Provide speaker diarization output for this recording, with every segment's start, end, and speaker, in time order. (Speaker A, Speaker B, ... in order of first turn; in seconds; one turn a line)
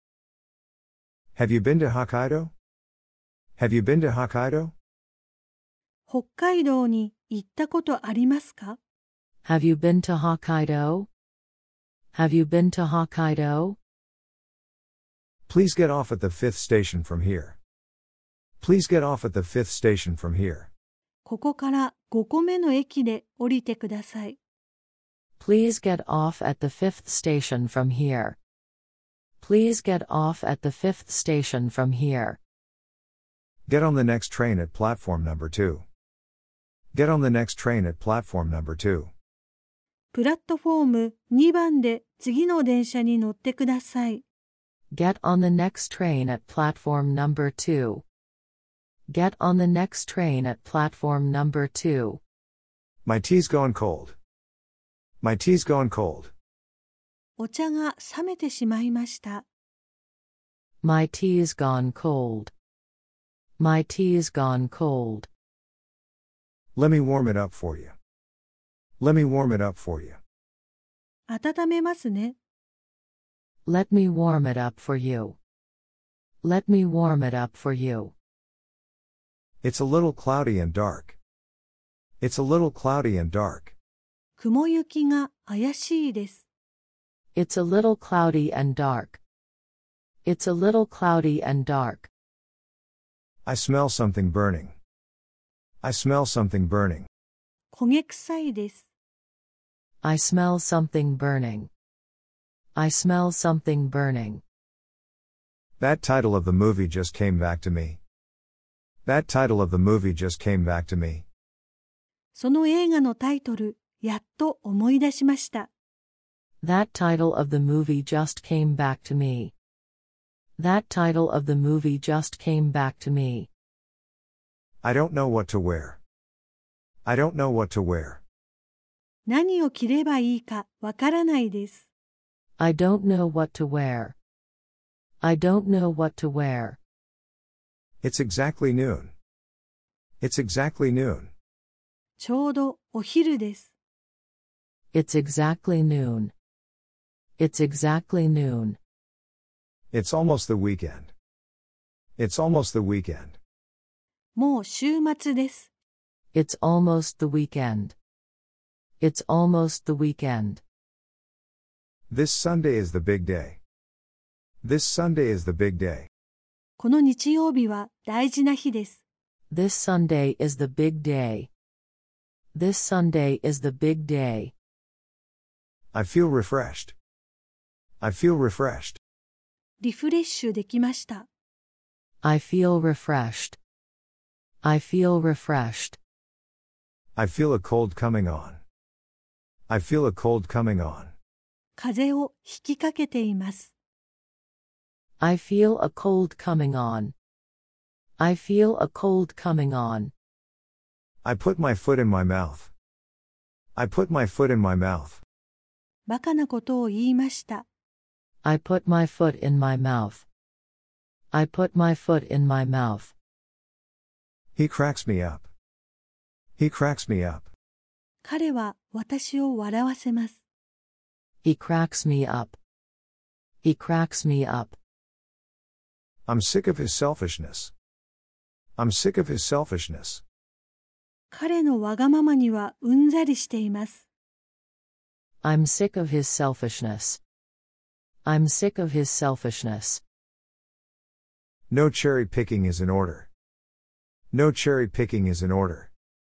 Speaker A: 1.4-2.5
Speaker A: 3.6-4.7
Speaker B: 6.1-8.8
Speaker C: 9.4-11.1
Speaker C: 12.1-13.8
Speaker A: 15.5-17.6
Speaker A: 18.6-20.7
Speaker B: 21.2-24.4
Speaker C: 25.4-28.4
Speaker C: 29.4-32.4
Speaker A: 33.7-35.8
Speaker A: 36.9-39.1
Speaker B: 40.1-44.2
Speaker C: 44.9-48.0
Speaker C: 49.1-52.2
Speaker A: 53.0-54.1
Speaker A: 55.2-56.3
Speaker B: 57.4-59.4
Speaker C: 60.8-62.5
Speaker C: 63.6-65.3
Speaker A: 66.8-67.9
Speaker A: 69.0-70.2
Speaker B: 71.3-72.3
Speaker C: 73.7-75.4
Speaker C: 76.4-78.1
Speaker A: 79.6-81.2
Speaker A: 82.2-83.7
Speaker B: 84.4-86.4
Speaker C: 87.3-89.2
Speaker C: 90.2-92.1
Speaker A: 93.4-94.8
Speaker A: 95.8-97.1
Speaker B: 97.7-98.8
Speaker C: 100.0-101.7
Speaker C: 102.7-104.4
Speaker A: 105.8-108.0
Speaker A: 109.0-111.2
Speaker B: 112.3-115.7
Speaker C: 116.6-119.5
Speaker C: 120.6-123.5
Speaker A: 124.8-126.0
Speaker A: 127.0-128.2
Speaker B: 129.3-131.8
Speaker C: 132.6-134.2
Speaker C: 135.2-136.8
Speaker A: 138.0-139.1
Speaker A: 140.2-141.3
Speaker B: 142.2-143.7
Speaker C: 144.9-146.3
Speaker C: 147.4-148.8
Speaker A: 149.9-151.1
Speaker A: 152.2-153.4
Speaker B: 154.3-155.7
Speaker C: 156.3-157.9
Speaker C: 159.0-160.6
Speaker A: 162.1-163.6
Speaker A: 164.6-166.1
Speaker B: 166.8-169.0
Speaker C: 169.5-171.5
Speaker C: 172.5-174.5
Speaker A: 175.9-176.9
Speaker A: 178.0-179.0
Speaker B: 179.8-181.3
Speaker C: 182.2-183.6
Speaker C: 184.6-186.0
Speaker A: 187.1-188.6
Speaker A: 189.7-191.1
Speaker B: 191.8-193.7
Speaker C: 195.2-197.1
Speaker C: 198.2-200.1
Speaker A: 201.2-202.7
Speaker A: 203.7-205.2
Speaker B: 206.1-207.6
Speaker C: 208.4-210.2
Speaker C: 211.3-213.1
Speaker A: 214.6-215.5
Speaker A: 216.6-217.5
Speaker B: 218.2-220.4
Speaker C: 221.4-222.6
Speaker C: 223.6-224.8
Speaker A: 226.2-227.7
Speaker A: 228.8-230.2
Speaker B: 231.3-234.0
Speaker C: 235.4-237.2
Speaker C: 238.2-240.0
Speaker A: 241.7-243.3
Speaker A: 244.3-245.9